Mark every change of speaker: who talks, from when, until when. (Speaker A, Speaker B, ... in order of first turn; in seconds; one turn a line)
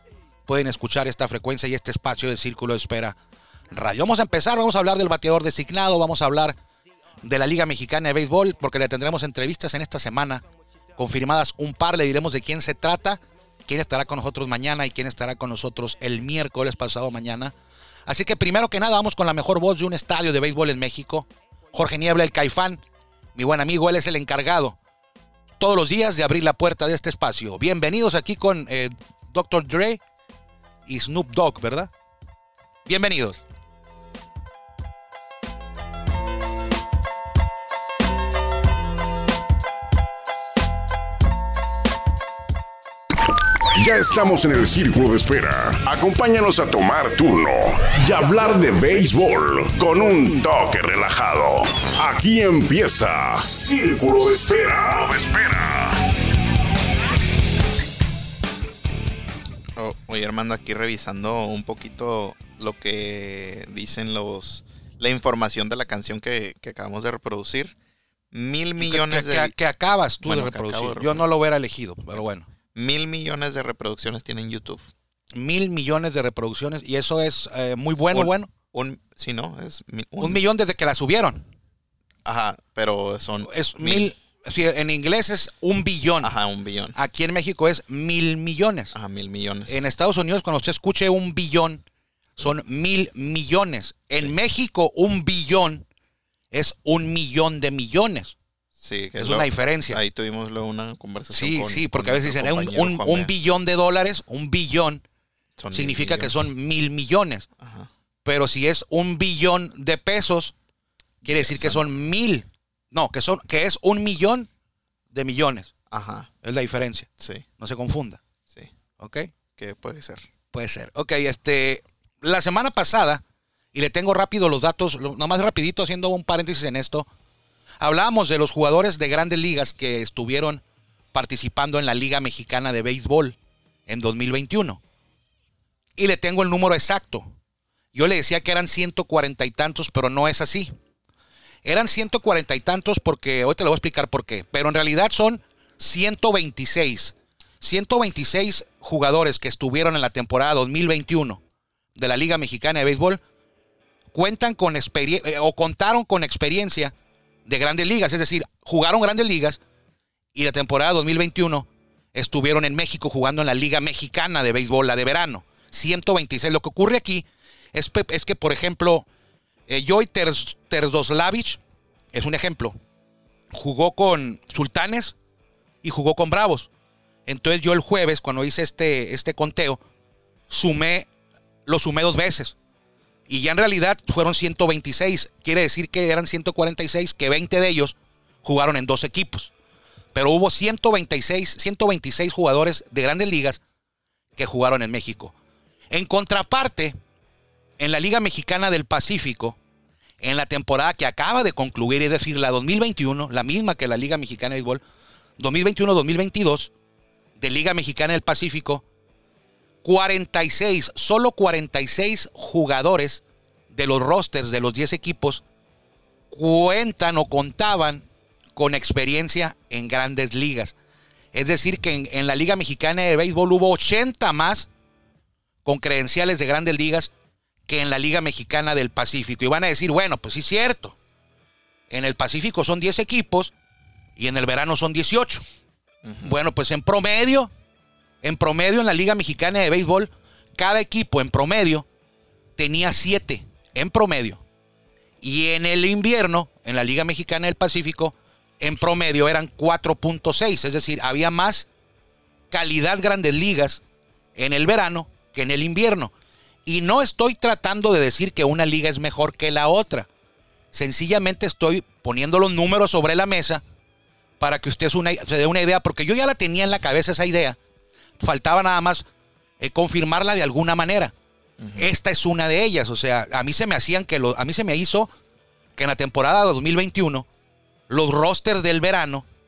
Speaker A: 0.5-3.2
Speaker A: 3.7-6.6
Speaker A: 7.2-10.4
Speaker A: 11.0-17.5
Speaker A: 18.1-22.8
Speaker A: 23.4-24.8
Speaker A: 25.6-30.0
Speaker A: 30.9-31.9
Speaker A: 32.9-33.4
Speaker B: 43.7-56.0
Speaker C: 59.8-67.8
Speaker C: 68.3-69.5
Speaker A: 68.8-72.5
Speaker C: 70.2-71.3
Speaker C: 72.8-74.9
Speaker A: 75.3-78.5
Speaker C: 78.1-80.4
Speaker A: 80.2-81.5
Speaker C: 82.2-84.1
Speaker A: 83.4-86.3
Speaker C: 86.2-87.0
Speaker A: 87.0-88.9
Speaker C: 88.9-89.9
Speaker A: 89.7-91.8
Speaker A: 92.4-95.8
Speaker A: 96.5-98.3
Speaker C: 98.8-103.3
Speaker A: 99.2-100.0
Speaker A: 101.3-105.0
Speaker C: 105.6-106.4
Speaker A: 105.7-107.5
Speaker C: 107.6-107.9
Speaker A: 108.2-110.5
Speaker A: 111.2-114.5
Speaker C: 111.3-111.8
Speaker A: 115.1-115.7
Speaker C: 115.9-116.3
Speaker A: 116.4-117.1
Speaker C: 117.2-117.5
Speaker A: 117.6-118.2
Speaker A: 119.0-119.3
Speaker C: 119.6-120.3
Speaker A: 120.5-123.2
Speaker A: 123.7-127.1
Speaker A: 127.8-134.8
Speaker A: 136.0-137.3
Speaker A: 137.9-140.7
Speaker A: 141.7-151.4
Speaker A: 152.0-153.2
Speaker A: 154.1-156.9
Speaker A: 157.5-159.6
Speaker A: 160.3-169.1
Speaker A: 169.7-171.6
Speaker A: 172.1-172.8
Speaker A: 173.5-175.2
Speaker A: 175.8-176.7
Speaker A: 177.3-179.8
Speaker A: 180.5-181.1
Speaker A: 181.7-182.6
Speaker A: 183.3-189.5
Speaker A: 190.1-193.6
Speaker A: 194.4-195.3
Speaker A: 195.9-196.9
Speaker A: 197.8-199.6
Speaker A: 200.2-204.8
Speaker A: 205.4-206.7
Speaker A: 207.4-208.8
Speaker A: 209.8-215.4
Speaker A: 216.3-220.8
Speaker A: 221.3-224.7
Speaker A: 225.7-227.1
Speaker A: 227.7-231.0
Speaker A: 231.9-233.5
Speaker A: 234.2-235.4
Speaker C: 236.0-236.3
Speaker A: 236.2-237.5
Speaker A: 238.2-241.9
Speaker A: 242.6-244.4
Speaker A: 245.2-251.7
Speaker A: 252.5-253.8
Speaker A: 254.4-256.1
Speaker A: 256.7-260.1
Speaker A: 260.7-263.6
Speaker A: 264.4-267.6
Speaker A: 268.2-269.0
Speaker A: 269.6-271.1
Speaker C: 271.6-271.9
Speaker A: 271.8-275.1
Speaker A: 275.8-277.3
Speaker A: 277.9-279.2